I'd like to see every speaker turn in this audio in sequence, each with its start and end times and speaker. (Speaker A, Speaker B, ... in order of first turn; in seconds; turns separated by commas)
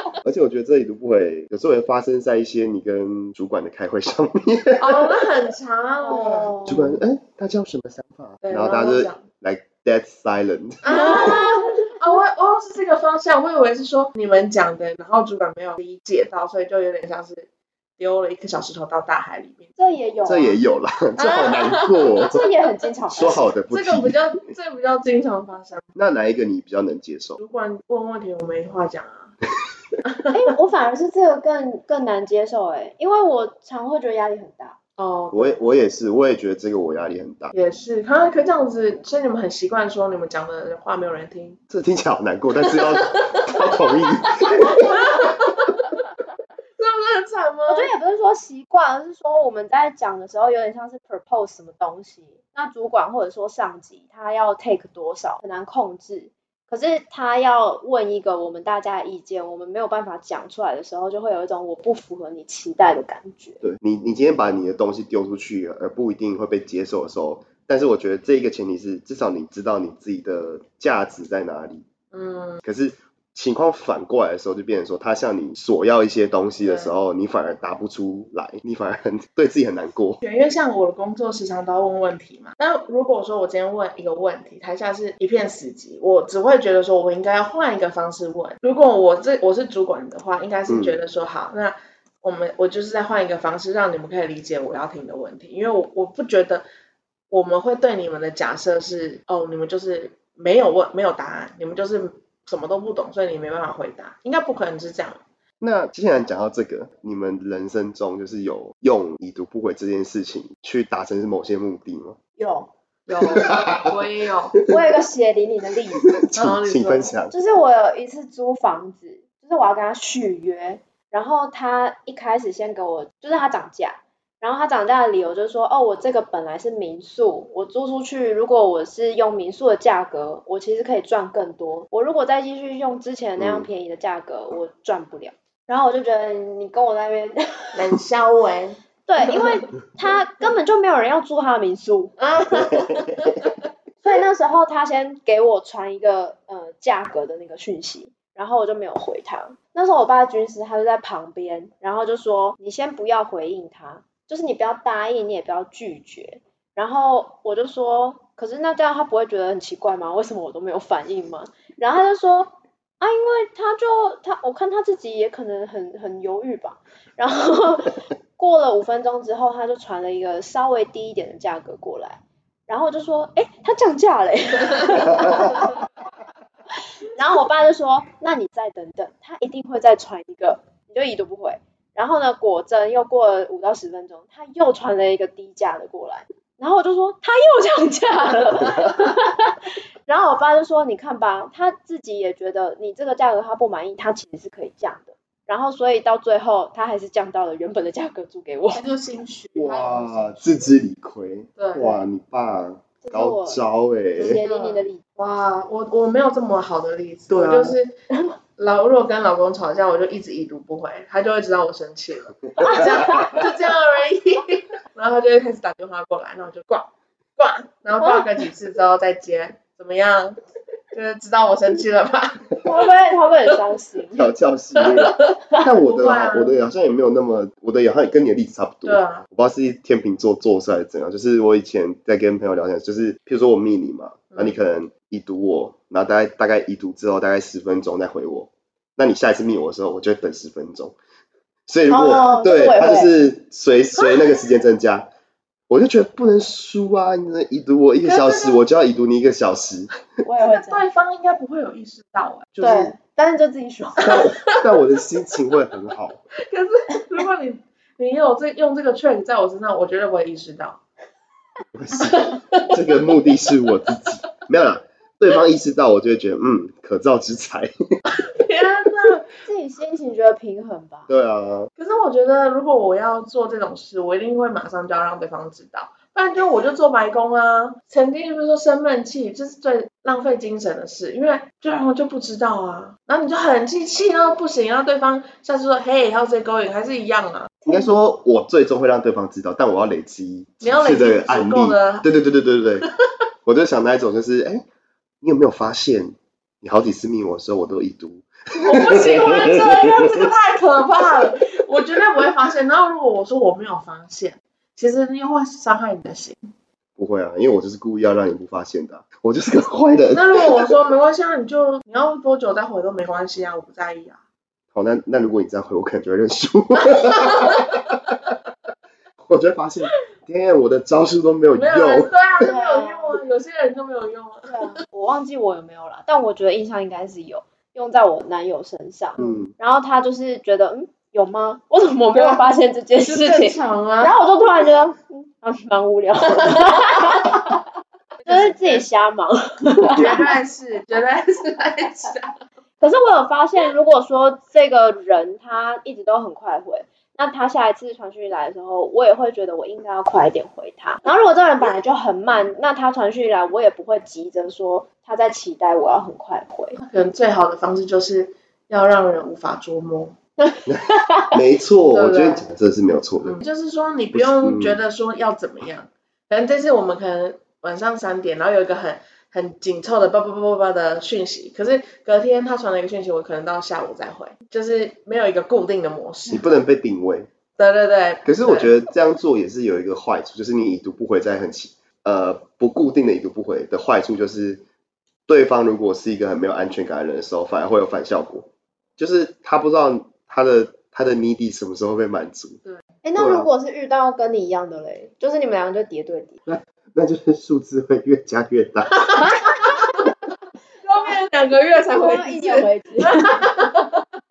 Speaker A: 0.2-5.2, Speaker B: 4.8-6.5, Speaker C: 6.0-7.0, Speaker A: 6.7-11.4, Speaker B: 8.4-9.2, Speaker B: 10.8-19.7, Speaker C: 10.9-11.8, Speaker C: 19.8-20.6, Speaker A: 20.2-22.4, Speaker B: 21.2-22.1, Speaker C: 22.2-23.5, Speaker A: 23.1-24.1, Speaker B: 23.7-25.9, Speaker A: 25.9-27.4, Speaker B: 27.4-29.3, Speaker B: 30.0-30.5, Speaker C: 30.3-34.8, Speaker B: 35.0-35.6, Speaker A: 35.3-37.5, Speaker B: 37.5-41.6, Speaker A: 41.7-45.3, Speaker B: 42.7-43.6, Speaker B: 44.3-45.8, Speaker B: 46.8-47.9, Speaker C: 47.7-63.6, Speaker A: 63.6-71.8, Speaker B: 72.1-72.6, Speaker A: 72.6-80.2, Speaker B: 76.6-76.9, Speaker B: 80.2-96.6, Speaker A: 90.7-91.0, Speaker B: 97.3-105.2, Speaker A: 105.6-112.2, Speaker C: 112.4-112.7, Speaker B: 113.1-114.6, Speaker A: 113.3-113.8, Speaker C: 114.7-116.1, Speaker A: 116.0-117.3, Speaker B: 116.3-117.1, Speaker C: 117.3-137.8, Speaker A: 133.4-133.7, Speaker B: 137.7-139.6, Speaker C: 139.1-142.1, Speaker B: 142.2-143.5, Speaker C: 144.0-175.8, Speaker C: 177.1-198.8, Speaker B: 198.7-200.6, Speaker A: 199.5-204.4, Speaker B: 201.6-201.9, Speaker C: 203.0-203.6, Speaker C: 204.2-205.0, Speaker B: 204.3-207.9, Speaker A: 207.3-207.8, Speaker B: 208.6-220.4, Speaker A: 212.6-213.3, Speaker C: 212.6-213.3, Speaker B: 220.9-222.5, Speaker C: 222.6-224.3, Speaker A: 224.1-240.9, Speaker B: 224.8-226.6, Speaker B: 228.8-229.2, Speaker B: 234.3-234.6, Speaker A: 241.7-245.1, Speaker C: 241.9-243.1, Speaker A: 245.7-249.9, Speaker B: 248.0-248.6, Speaker C: 250.2-250.8, Speaker B: 250.4-252.5, Speaker A: 252.5-252.9, Speaker C: 252.6-254.3, Speaker A: 254.0-256.2, Speaker B: 254.1-254.6, Speaker B: 256.4-260.8, Speaker A: 261.7-267.7, Speaker B: 262.0-262.7, Speaker B: 268.1-269.3, Speaker C: 269.4-271.1, Speaker A: 271.1-271.7, Speaker B: 271.8-287.7, Speaker A: 287.6-292.9, Speaker B: 290.6-292.1, Speaker A: 293.4-294.6, Speaker A: 295.2-300.2, Speaker B: 298.6-306.4, Speaker A: 307.0-310.7, Speaker B: 310.1-314.2, Speaker A: 314.7-317.9, Speaker B: 316.9-317.6, Speaker A: 319.2-322.1, Speaker B: 321.5-324.8, Speaker C: 322.4-323.2, Speaker C: 324.5-337.6, Speaker A: 329.2-329.5, Speaker B: 332.1-332.4, Speaker B: 333.0-334.2, Speaker B: 336.4-337.4, Speaker B: 338.2-338.9, Speaker C: 338.3-340.3, Speaker B: 339.8-342.3, Speaker C: 342.8-356.8, Speaker B: 356.8-360.2, Speaker A: 360.7-363.4, Speaker C: 360.9-361.3, Speaker B: 361.9-362.4, Speaker B: 363.2-376.4, Speaker A: 364.1-364.8, Speaker A: 376.3-377.3, Speaker B: 377.6-378.8, Speaker A: 378.2-384.6, Speaker A: 385.3-392.6, Speaker C: 393.0-396.4, Speaker A: 393.1-393.5, Speaker A: 396.4-399.1, Speaker B: 399.1-400.0, Speaker B: 400.8-404.0, Speaker C: 401.9-403.4